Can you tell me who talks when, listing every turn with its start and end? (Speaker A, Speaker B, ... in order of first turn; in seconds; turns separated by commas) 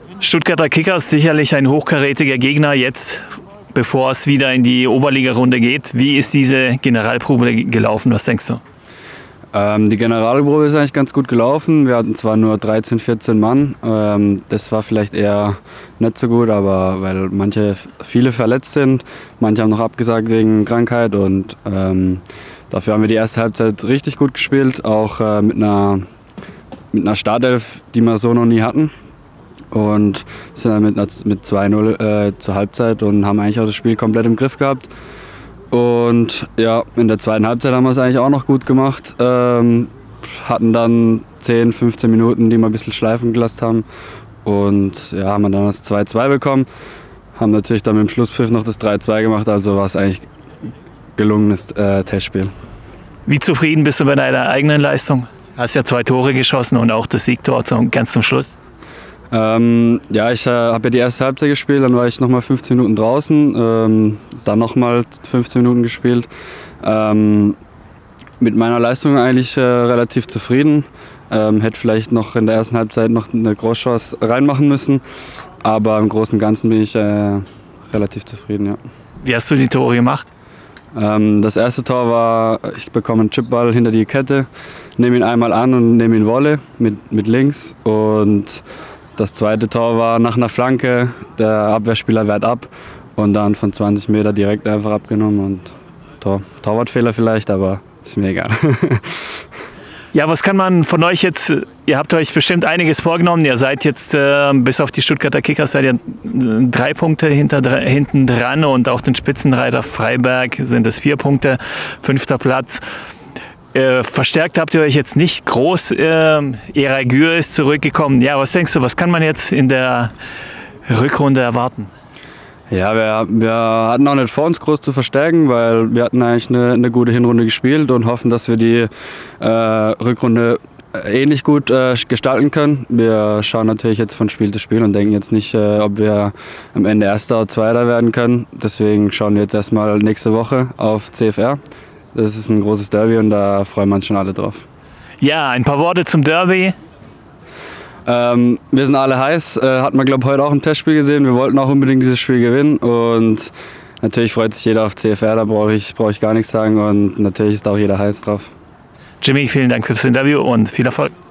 Speaker A: 0.2-8.6, Speaker B: 9.5-26.0, Speaker B: 26.9-28.9, Speaker B: 29.7-34.9, Speaker B: 35.7-43.8, Speaker B: 44.4-46.7, Speaker B: 47.4-50.2, Speaker B: 51.2-52.5, Speaker A: 53.3-58.5, Speaker B: 59.3-66.3, Speaker B: 66.8-67.6, Speaker B: 68.4-75.0, Speaker B: 75.6-78.8, Speaker A: 79.2-80.2, Speaker B: 80.9-88.6, Speaker B: 89.2-99.3, Speaker A: 100.1-112.8, Speaker A: 113.7-120.1, Speaker A: 120.9-121.9, Speaker B: 122.7-141.6, Speaker B: 142.1-144.7, Speaker A: 145.2-146.8, Speaker B: 148.1-158.5, Speaker A: 159.2-161.1